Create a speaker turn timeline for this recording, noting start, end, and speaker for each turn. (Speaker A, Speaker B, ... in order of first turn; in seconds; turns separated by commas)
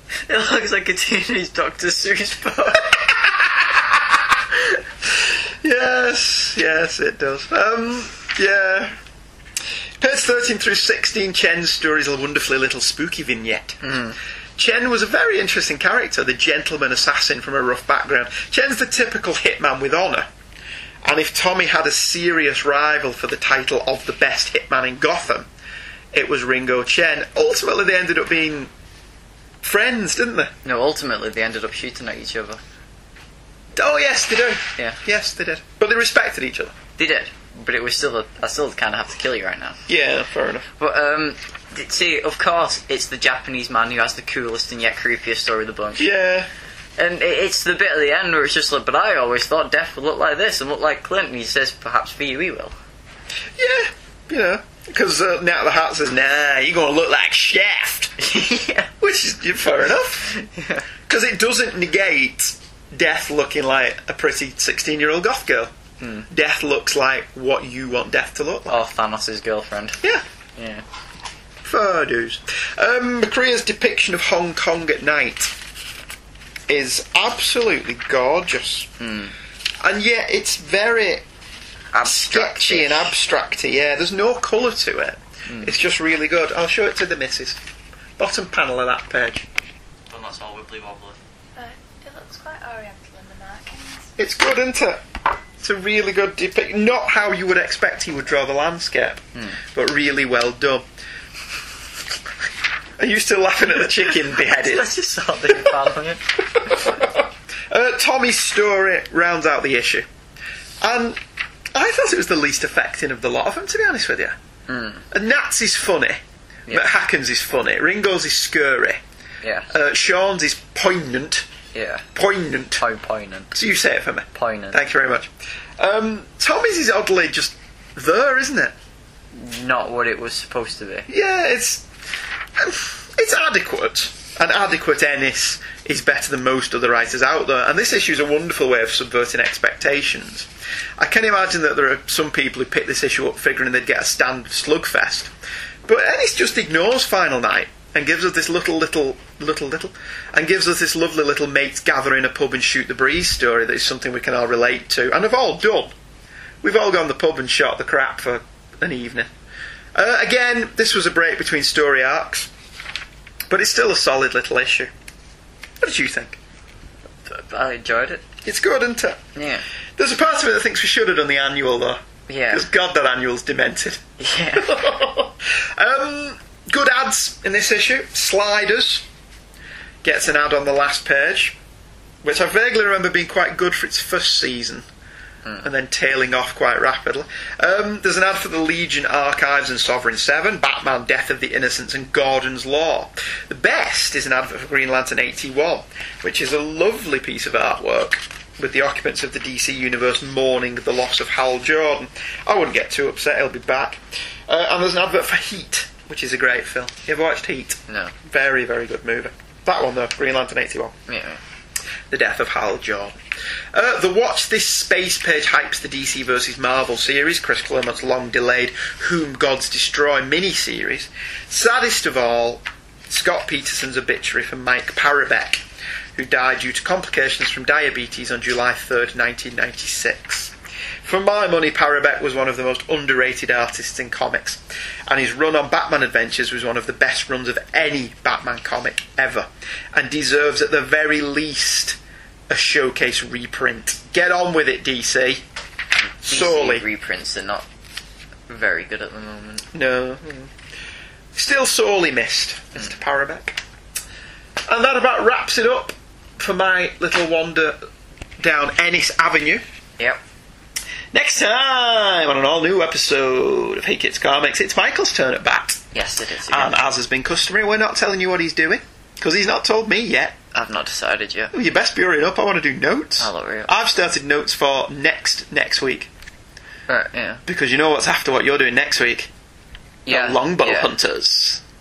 Speaker A: 0.2-2.9, Speaker B: 5.1-8.9, Speaker B: 10.0-13.8, Speaker A: 13.8-14.2, Speaker B: 14.6-20.3, Speaker B: 21.0-25.5, Speaker B: 26.1-28.7, Speaker B: 29.6-30.5, Speaker A: 30.6-32.6, Speaker B: 33.7-36.7, Speaker A: 37.0-39.8, Speaker B: 39.9-40.7, Speaker A: 40.8-46.1, Speaker B: 46.0-46.5, Speaker A: 47.0-52.7, Speaker B: 53.6-58.2, Speaker A: 58.2-58.9, Speaker B: 59.0-60.4, Speaker A: 60.3-60.8, Speaker B: 61.1-65.7, Speaker A: 66.0-66.3, Speaker B: 66.3-68.8, Speaker A: 68.7-70.0, Speaker A: 70.6-70.8, Speaker B: 71.6-75.5, Speaker B: 76.7-78.9, Speaker A: 79.0-79.3, Speaker B: 79.8-81.2, Speaker A: 81.9-83.1, Speaker B: 82.0-87.6, Speaker A: 85.5-85.7, Speaker B: 88.2-89.5, Speaker A: 90.1-91.2, Speaker C: 91.5-94.1, Speaker B: 94.2-95.0, Speaker B: 95.6-100.8, Speaker B: 103.0-105.0, Speaker A: 104.0-107.0, Speaker B: 105.5-105.8, Speaker B: 106.6-110.0, Speaker B: 110.8-111.2, Speaker B: 111.7-114.4, Speaker A: 114.7-115.0, Speaker B: 115.1-119.0, Speaker A: 119.4-119.7, Speaker B: 119.7-121.5, Speaker A: 121.7-122.0, Speaker B: 122.1-122.8, Speaker A: 122.8-123.5, Speaker B: 123.5-128.7, Speaker A: 124.3-124.8, Speaker A: 129.3-131.1, Speaker B: 131.1-131.9, Speaker B: 132.6-145.3, Speaker B: 145.8-155.9, Speaker B: 156.6-159.3, Speaker B: 159.9-162.5, Speaker B: 163.5-164.9, Speaker B: 165.8-166.4, Speaker A: 167.2-168.2, Speaker B: 168.4-169.2, Speaker A: 169.3-169.6, Speaker B: 170.0-179.1, Speaker A: 172.3-172.7, Speaker A: 174.2-174.8, Speaker B: 180.0-181.6, Speaker B: 182.2-184.8, Speaker B: 185.6-210.9, Speaker A: 207.9-208.1, Speaker A: 211.1-211.4, Speaker B: 212.1-213.2, Speaker B: 213.7-225.6, Speaker B: 226.1-245.4, Speaker B: 246.2-246.8, Speaker A: 246.2-247.7, Speaker A: 248.5-249.6, Speaker B: 249.7-250.5, Speaker B: 251.3-253.6, Speaker B: 254.6-257.8, Speaker B: 258.4-259.6, Speaker B: 261.1-265.8, Speaker A: 265.9-266.8, Speaker B: 266.5-270.4, Speaker A: 270.5-271.5, Speaker B: 271.5-276.1, Speaker A: 273.2-273.7, Speaker A: 276.9-277.4, Speaker B: 277.4-279.3, Speaker A: 280.1-280.9, Speaker B: 280.1-281.6